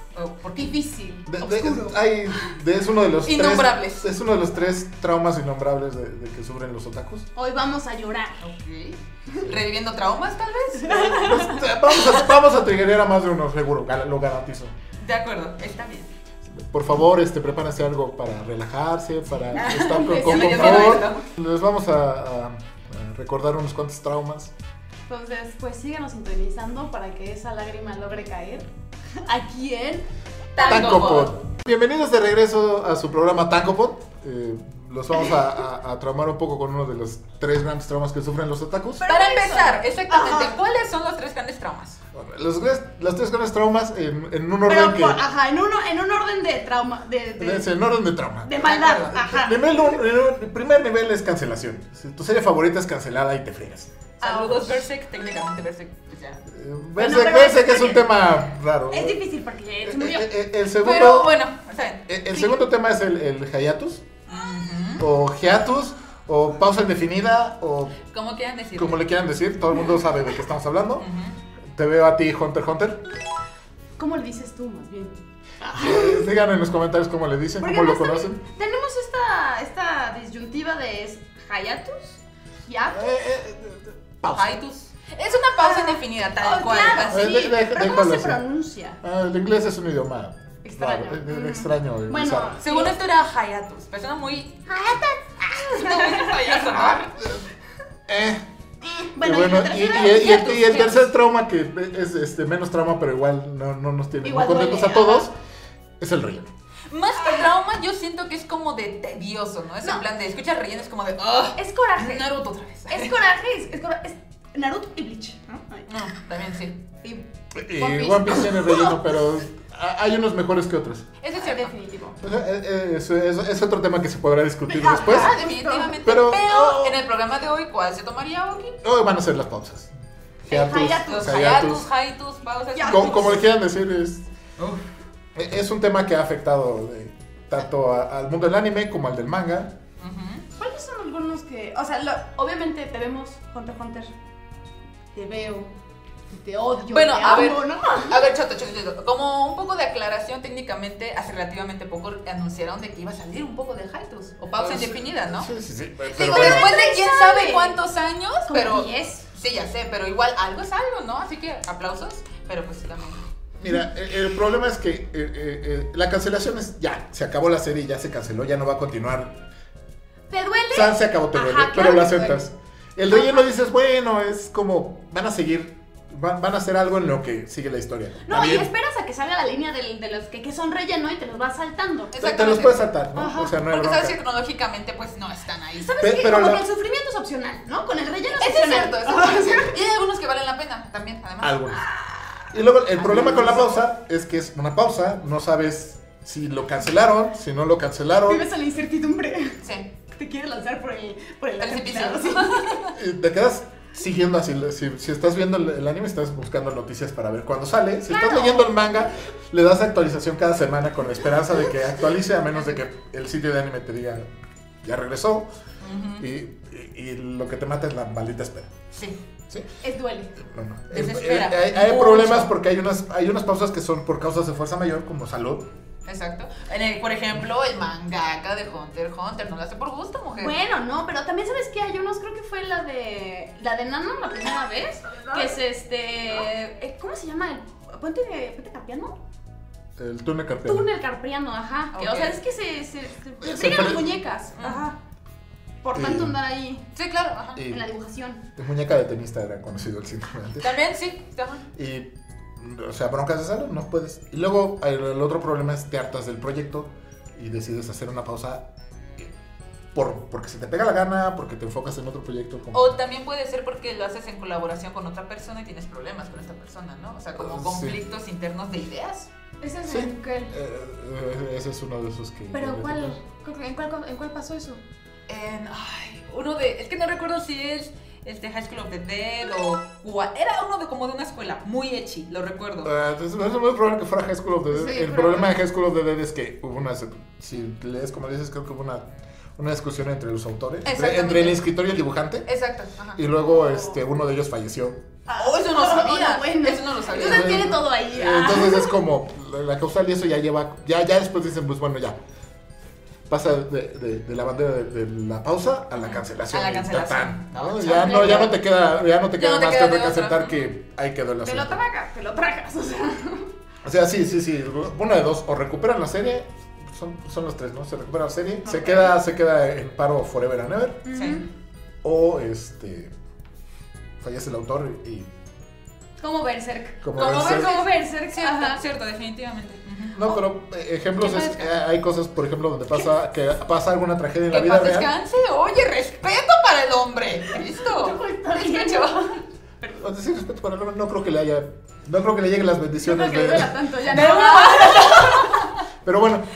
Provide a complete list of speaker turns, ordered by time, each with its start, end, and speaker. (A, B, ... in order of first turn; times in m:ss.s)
0:00.1-0:00.8 A
0:00.6-0:02.5 B
0:01.3-0:07.3 C
0:03.2-0:04.0 A
0:07.4-0:08.4 B
0:08.4-0:11.2 A
0:10.8-0:11.6 B
0:10.8-0:14.7 C
0:15.0-0:16.1 A
0:16.5-0:24.5 C
0:19.5-0:21.1 B
0:19.5-0:21.2 A
0:25.1-0:28.6 B
0:29.2-0:30.0 B
0:30.5-0:31.3 A
0:30.6-0:31.1 B
0:30.6-0:39.0 C
0:39.0-0:40.5 B
0:39.0-0:42.0 A
0:42.1-0:45.2 C
0:44.7-0:47.7 B
0:47.4-0:53.9 C
0:48.4-0:50.0 B
0:48.6-0:49.2 A
0:54.2-0:56.4 A
0:54.2-0:54.8 B
0:56.5-0:59.2 C
0:57.0-0:58.0 B
0:58.9-1:00.3 B
0:59.8-1:01.4 C
1:00.8-1:02.0 A
1:02.1-1:04.0 C
1:04.3-1:05.0 A
1:05.0-1:08.0 C
1:08.1-1:09.0 A
1:08.8-1:11.0 C
1:11.0-1:11.4 A
1:11.7-1:13.0 C
1:14.0-1:16.3 B
1:15.7-1:18.4 C
1:17.6-1:23.0 B
1:22.9-1:24.6 C
1:24.3-1:27.4 A
1:25.5-1:29.0 B
1:27.1-1:28.4 C
1:29.0-1:32.6 C
1:30.6-1:33.0 B
1:32.6-1:34.6 A
1:34.7-1:37.0 B
1:35.7-1:37.1 A
1:37.1-1:37.4 C
1:38.1-1:38.4 C
1:39.0-1:40.5 B
1:39.2-1:45.3 C
1:39.8-1:41.1 A
1:44.2-1:45.3 B
1:46.0-1:46.5 C
1:46.9-1:53.1 A
1:51.6-1:52.3 B
1:52.9-1:56.0 B
1:55.9-1:56.8 A
1:57.5-2:01.1 C
1:57.8-1:58.4 A
1:58.2-1:59.1 B
2:01.2-2:01.7 A
2:01.4-2:02.2 B
2:02.2-2:05.4 C
2:04.7-2:06.0 B
2:04.9-2:08.8 A
2:06.0-2:07.0 C
2:08.8-2:11.9 C
2:10.5-2:11.3 B
2:11.1-2:13.4 A
2:12.7-2:13.3 B
2:12.9-2:14.2 C
2:15.3-2:19.7 C
2:20.0-2:20.4 A
2:20.6-2:24.1 B
2:25.1-2:25.7 B
2:26.3-2:28.3 B
2:26.9-2:35.5 A
2:34.6-2:36.8 C
2:36.1-2:43.2 A
2:36.2-2:37.8 B
2:38.5-2:39.2 B
2:43.6-2:49.3 C
2:50.3-2:52.4 B
2:50.7-2:58.7 C
2:53.1-2:53.5 B
2:58.2-3:03.6 B
3:02.1-3:02.8 A
3:02.2-3:04.2 C
3:03.6-3:05.9 A
3:05.8-3:09.8 B
3:06.0-3:06.6 C
3:08.4-3:11.8 A
3:11.4-3:11.8 C
3:12.5-3:18.4 C
3:13.0-3:13.6 B
3:18.2-3:22.9 B
3:19.6-3:19.9 A
3:21.6-3:22.9 A
3:22.9-3:34.3 C
3:28.1-3:28.8 B
3:34.8-3:35.5 C
3:35.8-3:36.2 A
3:36.2-3:38.7 C
3:38.9-3:39.2 A
3:39.8-3:40.4 B
3:40.4-3:45.7 C
3:40.9-3:42.5 A
3:46.0-3:50.6 A
3:50.3-3:59.2 B
3:55.1-3:55.5 A
4:00.0-4:00.9 C
4:00.6-4:05.0 B
4:01.9-4:02.4 A
4:03.4-4:04.1 C
4:04.6-4:04.8 A
4:05.8-4:06.8 B
4:05.9-4:06.4 C
4:06.9-4:07.6 A
4:07.6-4:07.8 C
4:07.6-4:08.4 B
4:08.6-4:10.8 C
4:10.6-4:11.6 A
4:11.7-4:18.6 C
4:19.9-4:22.9 C
4:22.7-4:29.3 A
4:27.3-4:28.0 C
4:29.6-4:30.5 B
4:29.8-4:33.2 C
4:32.5-4:34.8 B
4:35.3-4:42.9 A
4:42.8-4:52.5 C
4:44.7-4:45.5 B
4:50.8-4:51.6 A
4:52.4-4:53.2 A
4:53.2-4:55.0 C
4:53.6-4:54.0 B
4:55.3-4:58.9 B
4:55.4-4:57.8 A
4:57.1-5:02.2 C
5:03.3-5:11.8 C
5:06.0-5:08.5 A
5:07.9-5:08.5 B
5:09.4-5:10.7 A
5:11.4-5:13.5 B
5:13.8-5:21.0 C
5:18.6-5:19.2 B
5:21.0-5:21.5 B
5:21.1-5:21.4 A
5:22.0-5:23.1 C
5:24.2-5:25.3 C
5:26.2-5:28.8 B
5:27.0-5:27.7 C
5:27.1-5:30.4 A
5:30.1-5:35.1 C
5:31.2-5:31.7 A
5:34.5-5:39.4 A
5:37.7-5:39.4 B
5:39.9-5:43.8 C
5:43.0-5:45.7 B
5:44.1-5:45.8 A
5:46.0-5:46.5 C